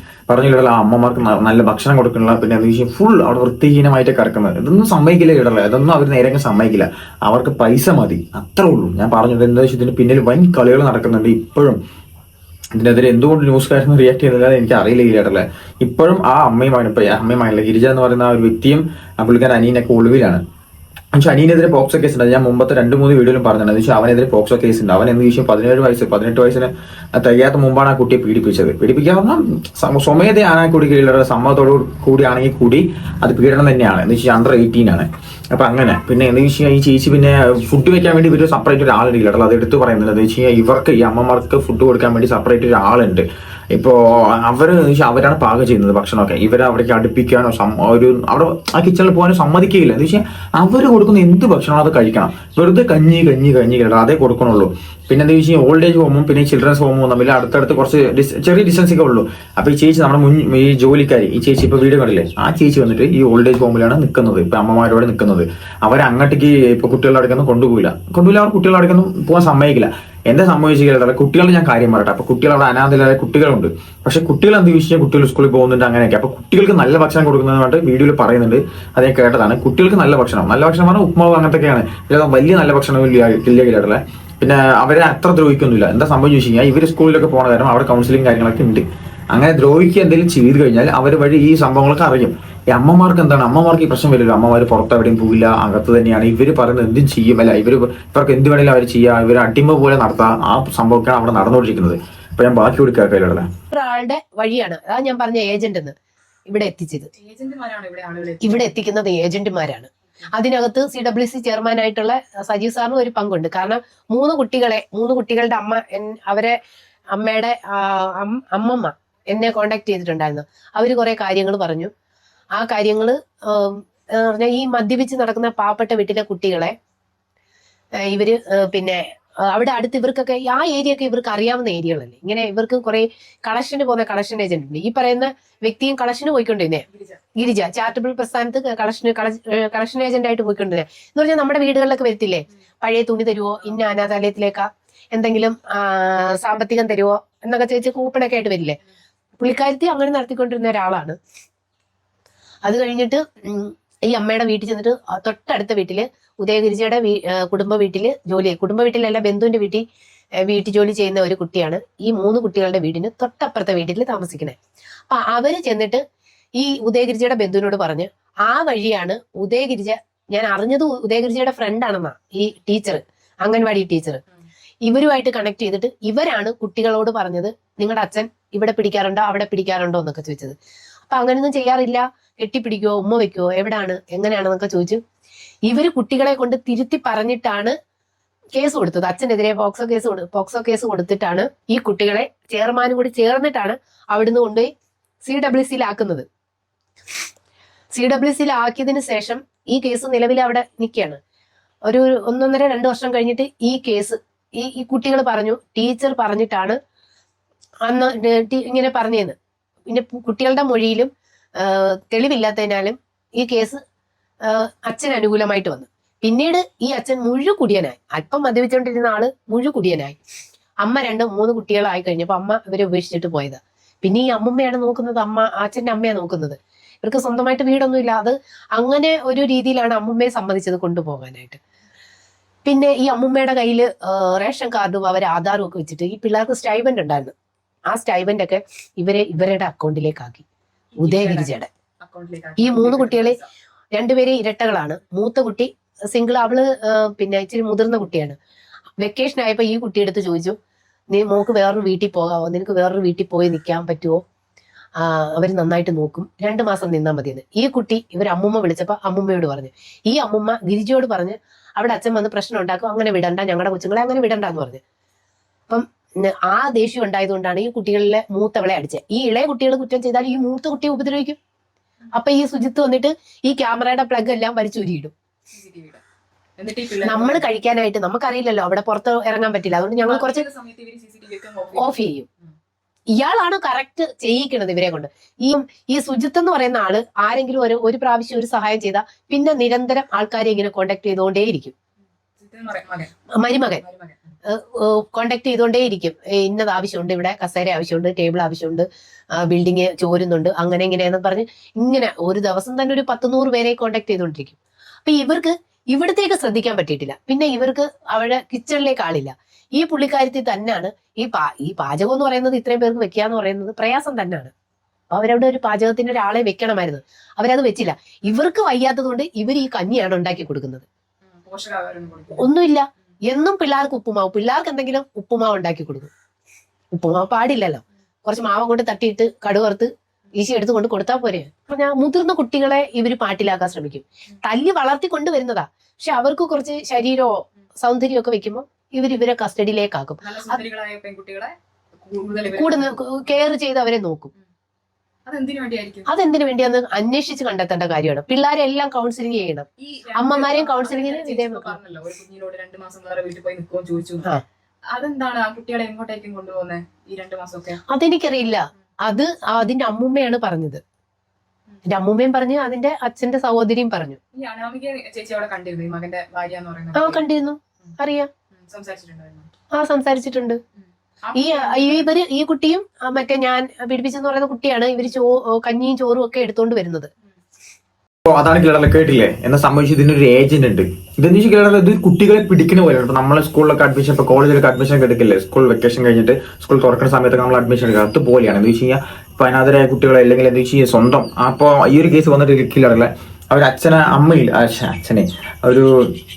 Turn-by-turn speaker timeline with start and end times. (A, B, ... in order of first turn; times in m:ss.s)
0:00.3-0:11.8 A
0:12.8-0:20.4 A
0:21.1-1:43.5 A
1:43.7-1:45.9 B
1:46.5-1:47.1 B
1:47.2-1:48.7 C
1:48.4-1:56.6 B
1:57.1-2:01.9 B
2:02.6-2:06.7 B
2:08.0-2:28.8 B
2:16.9-2:17.2 C
2:29.4-2:31.2 B
2:32.7-2:39.8 B
2:40.5-2:44.6 B
2:45.1-2:46.0 B
2:46.6-2:54.2 B
2:54.8-3:00.6 B
3:01.1-3:05.0 B
3:05.7-3:07.7 B
3:08.6-3:14.7 B
3:15.2-3:16.3 B
3:17.9-3:21.2 B
3:21.9-3:26.8 B
3:27.8-3:29.4 B
3:29.9-3:33.8 B
3:34.4-3:40.2 B
3:40.8-3:51.6 B
3:52.6-3:57.3 B
3:57.9-4:00.4 B
4:00.9-4:03.5 C
4:01.0-4:01.7 B
4:02.6-4:03.4 B
4:03.9-4:08.4 B
4:09.0-4:10.6 B
4:11.1-4:14.2 B
4:15.0-4:24.8 B
4:25.7-4:31.4 B
4:32.1-4:35.1 B
4:35.5-4:36.0 C
4:36.6-4:37.4 C
4:37.0-4:40.4 B
4:40.1-4:42.5 C
4:41.8-4:42.3 B
4:43.2-4:51.7 B
4:52.4-4:54.3 C
4:53.4-4:53.8 B
4:54.4-4:58.9 B
4:59.4-5:14.5 B
5:15.1-5:20.8 B
5:21.3-5:22.5 C
5:22.4-5:26.1 B
5:26.9-5:40.6 B
5:40.2-5:43.0 C
5:42.5-5:44.3 B
5:45.3-5:46.1 C
5:46.1-5:51.8 B
5:49.8-5:54.3 C
5:54.9-5:57.8 C
5:57.9-6:00.8 B
6:01.9-6:04.2 B
6:04.3-6:07.2 C
6:07.0-6:08.3 B
6:08.5-6:09.5 C
6:09.7-6:10.6 B
6:11.2-6:12.1 C
6:11.4-6:17.1 B
6:18.3-6:35.9 A